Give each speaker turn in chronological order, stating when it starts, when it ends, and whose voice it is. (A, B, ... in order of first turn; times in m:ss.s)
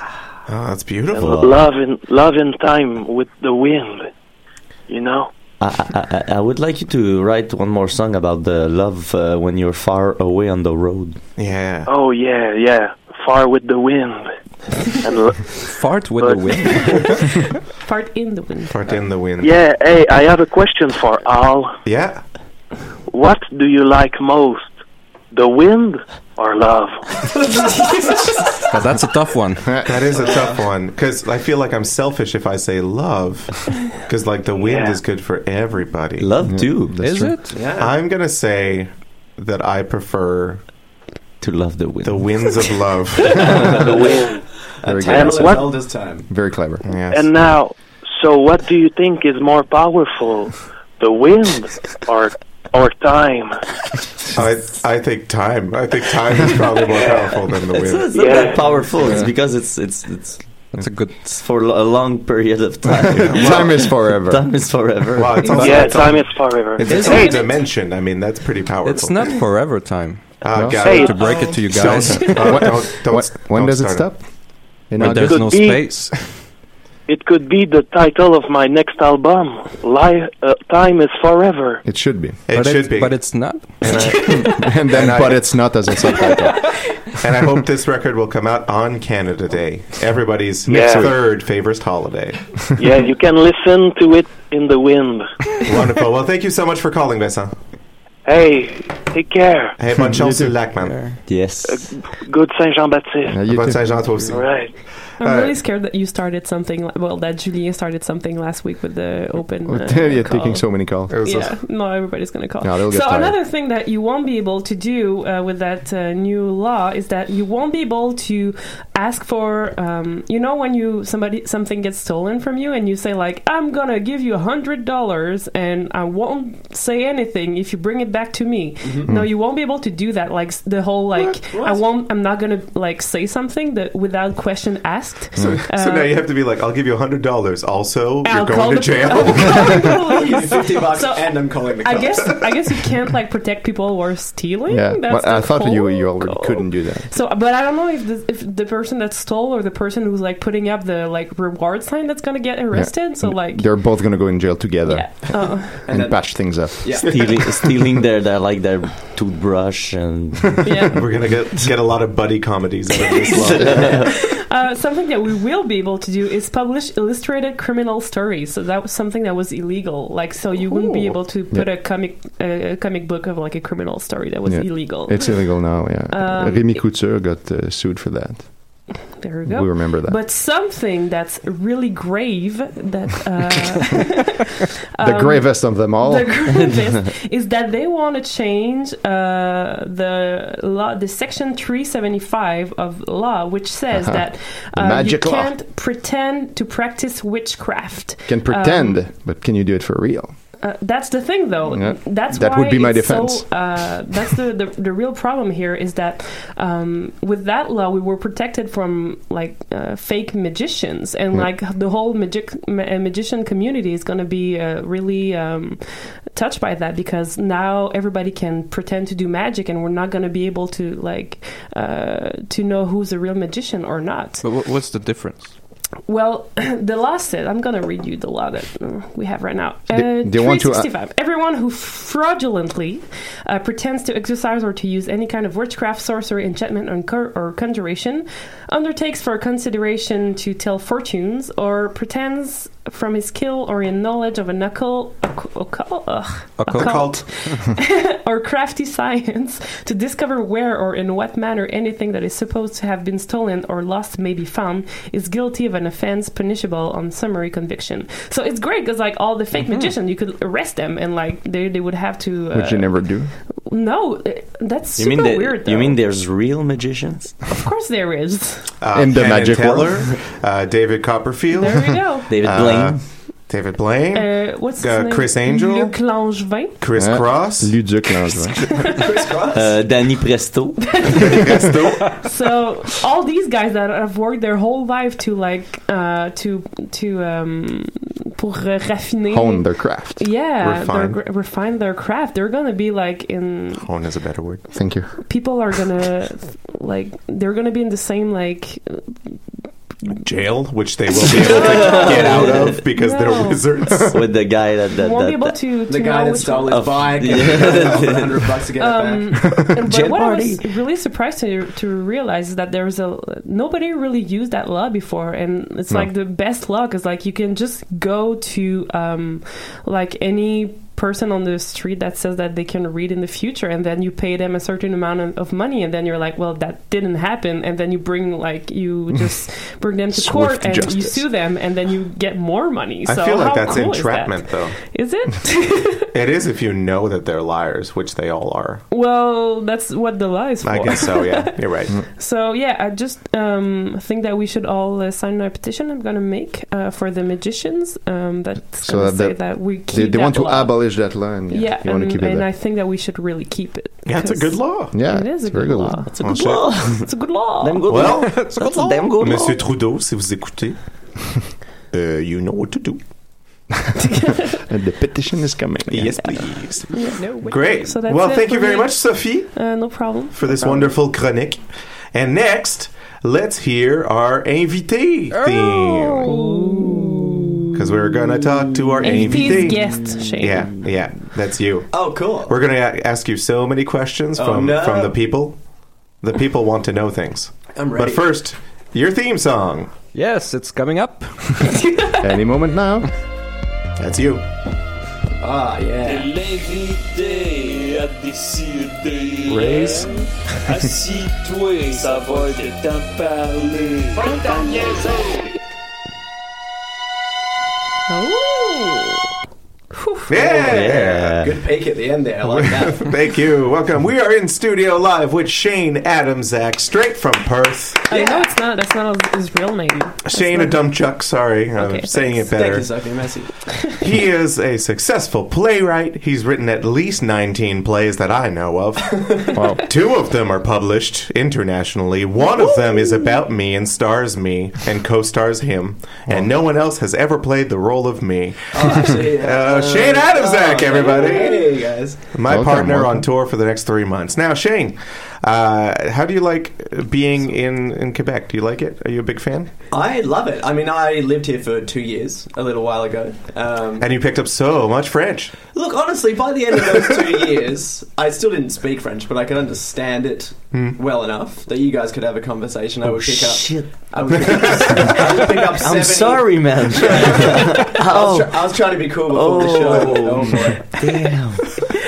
0:00.5-0:01.5 A
0:01.2-0:01.5 B
0:01.2-0:04.1 C
0:04.9-0:05.3 C
0:05.6-0:11.2 B
0:11.4-0:11.9 A
0:11.9-0:14.3 C
0:15.0-0:16.8 C
0:15.6-0:17.5 D
0:16.9-0:17.2 E
0:17.8-0:18.8 E
0:18.7-0:19.5 A
0:19.4-0:21.8 C
0:21.8-0:22.2 A
0:23.1-0:24.8 C
0:25.3-0:27.1 C
0:28.7-0:29.9 D
0:29.8-0:36.3 A
0:30.1-0:30.7 F
0:34.6-0:35.0 C
0:36.2-0:37.0 B
0:36.4-0:37.4 G
0:37.0-0:37.6 D
0:37.5-0:38.0 F
0:37.8-0:40.6 A
0:41.4-0:42.7 B
0:42.0-0:43.9 A
0:43.7-0:44.4 C
0:43.8-0:44.1 F
0:44.8-0:46.3 F
0:44.8-0:45.7 G
0:45.0-0:45.6 C
0:46.2-0:46.8 G
0:46.8-0:47.3 A
0:47.1-0:53.6 C
0:54.3-0:58.4 A
0:57.7-1:05.9 B
0:58.1-0:58.6 C
1:00.7-1:01.3 D
1:02.9-1:04.7 G
1:03.1-1:03.9 A
1:05.2-1:09.4 A
1:05.5-1:07.6 C
1:06.9-1:07.2 B
1:08.8-1:12.8 D
1:10.4-1:14.1 A
1:10.5-1:11.0 G
1:10.8-1:11.3 C
1:11.8-1:14.3 G
1:14.9-1:15.5 G
1:15.0-1:16.4 D
1:15.1-1:15.9 C
1:17.1-1:21.8 C
1:21.8-1:22.4 G
1:22.5-1:25.5 A
1:22.5-1:24.4 D
1:24.3-1:26.8 G
1:27.2-1:32.7 A
1:30.7-1:31.1 C
1:30.7-1:31.2 G
1:32.8-1:35.3 C
1:35.6-1:37.6 A
1:38.3-1:39.8 C
1:39.8-1:41.0 A
1:40.1-1:40.5 G
1:40.8-1:41.2 D
1:41.3-1:41.9 B
1:41.6-1:43.4 C
1:43.3-1:44.3 G
1:43.5-1:45.6 A
1:44.2-1:44.8 C
1:45.2-2:16.2 E
1:49.6-1:51.2 G
1:51.1-1:51.6 A
1:52.6-1:53.4 G
2:08.8-2:09.1 F
2:11.5-2:11.8 F
2:15.4-2:20.0 A
2:18.2-2:34.0 E
2:20.1-2:22.4 F
2:24.7-2:27.1 G
2:32.7-2:37.5 G
2:34.9-2:35.8 E
2:35.8-2:37.2 F
2:37.1-2:40.7 B
2:40.6-2:41.0 E
2:40.9-2:44.1 A
2:43.3-2:44.2 B
2:43.6-2:56.8 E
2:54.5-2:58.8 G
2:59.2-3:19.0 E
2:59.4-3:00.2 G
3:05.0-3:06.7 G
3:13.9-3:15.5 G
3:18.3-3:20.3 G
3:20.6-3:44.5 E
3:21.7-3:23.6 G
3:44.4-3:45.5 D
3:46.1-4:23.1 E
3:49.9-3:50.9 G
4:06.6-4:07.1 D
4:06.7-4:07.2 A
4:22.5-4:23.3 G
4:23.7-4:26.0 E
4:25.0-4:27.4 B
4:27.5-4:28.7 E
4:28.8-4:36.0 A
4:28.9-4:30.1 G
4:31.5-4:32.3 E
4:32.3-4:33.0 B
4:34.1-4:36.8 E
4:36.8-4:38.3 A
4:37.0-4:38.9 G
4:38.9-4:39.8 F
4:39.5-4:41.1 B
4:40.9-4:53.9 E
4:41.3-4:42.2 A
4:49.3-4:50.3 G
4:50.6-4:51.2 A
4:53.8-4:54.7 A
4:54.7-4:55.1 G
4:55.2-4:59.3 E
5:00.1-5:04.3 A
5:01.3-5:02.8 B
5:01.4-5:03.7 E
5:04.1-5:05.7 B
5:05.0-5:06.9 E
5:05.9-5:09.4 F
5:06.7-5:08.3 B
5:08.8-5:36.1 E
5:09.8-5:10.7 B
5:30.1-5:31.3 G
5:33.0-5:34.8 A
5:36.1-5:38.8 A
5:38.9-5:56.3 E
5:40.6-5:42.0 A
5:48.8-5:52.5 G
5:54.0-5:55.0 A
5:54.9-5:56.1 G
5:56.1-5:59.7 B
5:56.2-5:57.1 A
5:56.9-5:58.0 E
5:57.9-6:00.8 A
5:58.3-5:58.6 D
6:01.9-6:03.0 A
6:04.7-6:06.5 G
6:05.9-6:16.4 A
6:06.9-6:10.7 E
6:15.3-6:16.4 D
6:16.2-6:17.6 E
6:17.7-6:25.6 A
6:19.0-6:20.7 E
6:21.9-6:22.6 F
6:24.4-6:25.2 F
6:26.2-6:29.9 A
6:27.7-6:28.4 F
6:30.1-6:31.9 D
6:32.2-6:33.1 G
6:34.0-6:34.4 A
6:35.4-6:36.3 F
6:36.5-6:39.5 H
6:39.5-6:40.2 A
6:41.1-6:43.9 H
6:44.2-6:44.9 F
6:48.1-6:49.2 E
6:49.9-6:50.3 E
6:50.3-6:51.5 A
6:50.3-6:53.1 F
6:50.7-6:51.5 B
6:52.4-6:58.1 A
6:58.1-7:00.9 E
6:58.1-6:58.5 F
7:00.2-7:03.1 A
7:01.8-7:02.4 E
7:02.5-7:03.5 F
7:04.0-7:29.7 A
7:09.6-7:09.8 G
7:12.6-7:13.2 F
7:18.7-7:22.3 F
7:22.5-7:23.3 G
7:29.9-7:34.1 F
7:34.0-7:35.6 A
7:35.7-7:51.4 F
7:40.7-7:41.0 A
7:43.1-7:51.8 B